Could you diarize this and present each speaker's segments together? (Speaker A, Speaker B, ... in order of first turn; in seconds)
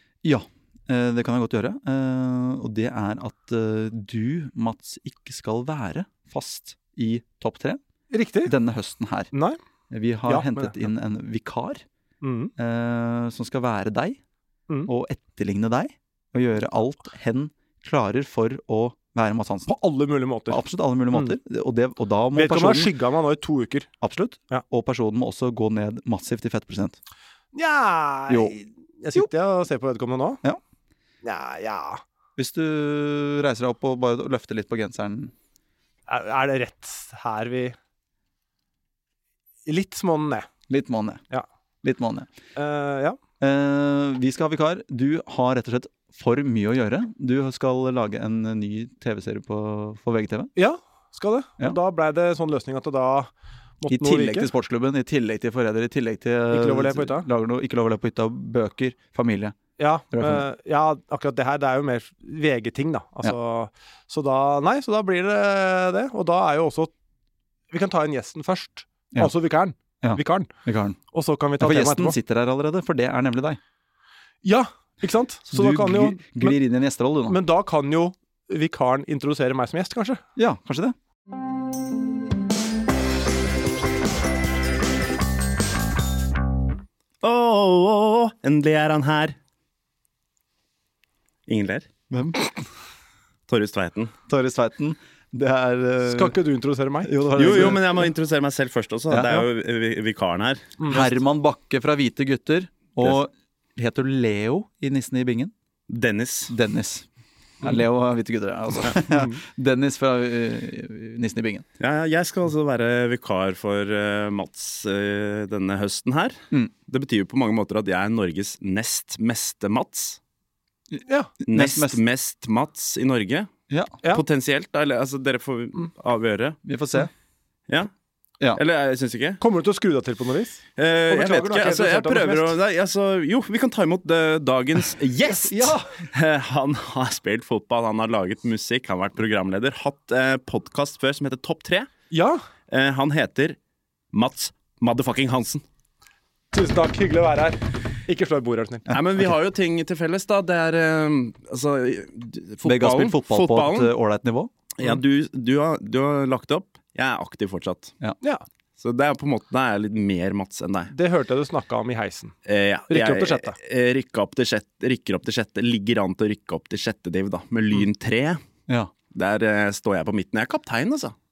Speaker A: 0.2-7.8, 8.4-9.3, 9.9-11.8, 12.6-14.2, 14.9-19.7, 20.5-22.9, 24.0-27.0, 28.3-28.5, 32.4-35.3, 40.7-41.2, 41.8-42.3, 43.4-50.5, 53.9-59.6, 60.1-60.5, 70.0-71.0, 71.6-73.6, 75.5-77.3, 80.3-80.9, 92.1-92.5, 94.3-96.3, 97.0-97.8, 99.1-99.5, 100.9-105.5, 106.5-107.1, 107.6-111.6, 120.9-122.0, 123.7-124.0, 126.6-127.1, 152.6-154.5
Speaker B: 8.1-8.5, 9.3-9.6, 10.3-10.9, 12.2-12.5, 19.7-21.4, 22.3-23.9, 27.5-30.4, 31.2-32.0, 36.1-37.8, 39.6-40.5, 42.5-43.2, 50.5-54.5, 56.5-57.3, 59.8-66.9, 67.7-70.5, 71.1-72.2, 74.4-76.5, 77.3-80.2, 96.0-97.8, 100.8-101.1, 109.1-109.4, 129.4-132.5, 135.4-135.9, 142.1-142.4, 146.5-148.9, 160.9-162.3, 162.9-163.6
Speaker C: 87.2-89.3, 91.5-91.9, 93.5-94.1, 97.3-100.7, 105.9-106.5, 111.8-120.2, 121.5-123.5, 124.0-126.6, 128.5-129.4, 130.8-141.9, 142.7-143.6, 144.1-145.6, 148.9-153.9, 154.8-157.9, 158.8-160.9, 162.4-168.4, 169.1-171.1